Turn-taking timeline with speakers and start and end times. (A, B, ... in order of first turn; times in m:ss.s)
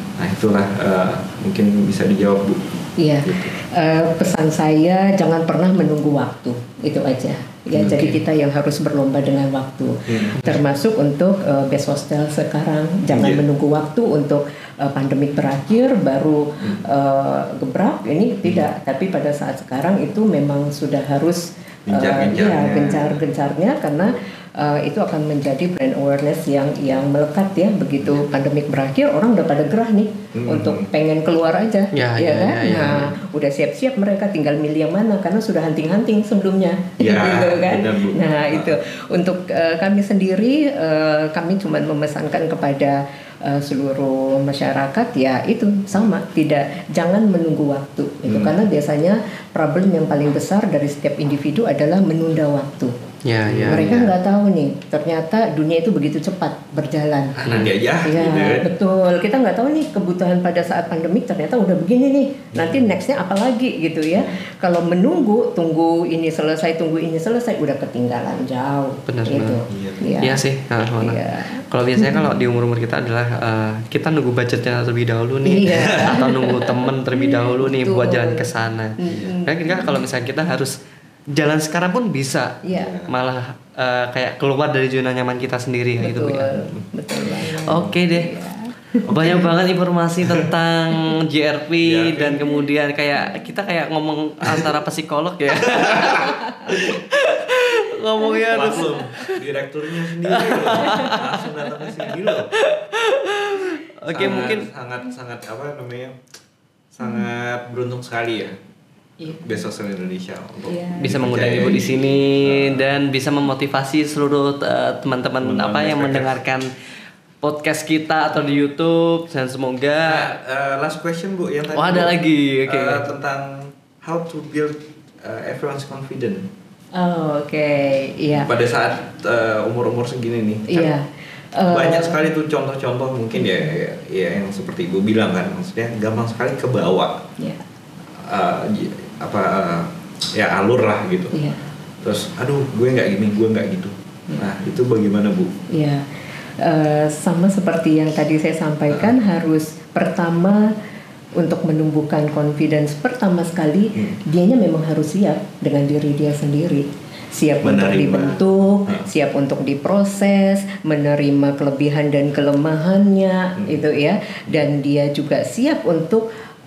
0:00.2-0:03.5 A
0:03.0-0:52.9 B
0:07.7-0:08.2 A
0:10.1-0:10.5 A
0:13.1-0:13.4 A
0:18.4-0:18.7 A
0:21.9-0:23.3 A
0:30.3-0:30.9 A
0:31.9-0:33.1 C
0:37.0-0:38.8 A
0:48.2-0:48.6 A
0:53.2-0:54.0 C
0:53.4-0:54.1 A
0:53.7-0:57.4 B
0:57.4-0:58.7 A
0:57.4-0:57.7 C
0:58.0-1:10.4 B
1:02.5-1:02.9 A
1:04.1-1:04.4 A
1:09.1-1:09.6 C
1:09.7-1:10.2 A
1:10.2-1:20.7 C
1:11.0-1:12.2 B
1:15.4-1:18.5 B
1:15.7-1:16.2 A
1:19.0-1:20.0 B
1:21.3-1:26.6 C
1:22.6-1:22.9 B
1:22.7-1:23.1 A
1:26.0-1:29.5 B
1:27.6-1:28.4 C
1:27.6-1:28.0 A
1:29.1-1:39.4 C
1:29.1-1:29.5 A
1:30.2-1:30.5 A
1:31.8-1:32.5 A
1:34.4-1:34.7 A
1:35.6-1:37.0 A
1:36.2-1:36.7 B
1:38.2-1:38.9 B
1:38.5-1:42.5 A
1:40.1-1:44.7 C
1:40.8-1:41.2 B
1:44.1-1:46.2 A
1:46.9-1:48.6 A
1:49.3-1:52.9 A
1:50.7-1:51.3 B
1:51.0-1:56.7 C
1:55.4-1:56.4 A
1:57.4-2:00.3 C
2:00.0-2:06.5 A
2:01.7-2:03.0 C
2:07.0-2:08.5 B
2:08.3-2:10.9 A
2:10.7-2:12.2 B
2:11.7-2:17.2 A
2:18.2-2:21.4 A
2:21.3-2:21.6 B
2:22.0-2:25.6 A
2:25.7-2:26.0 B
2:26.6-2:30.7 B
2:31.4-2:46.2 B
2:37.6-2:39.1 A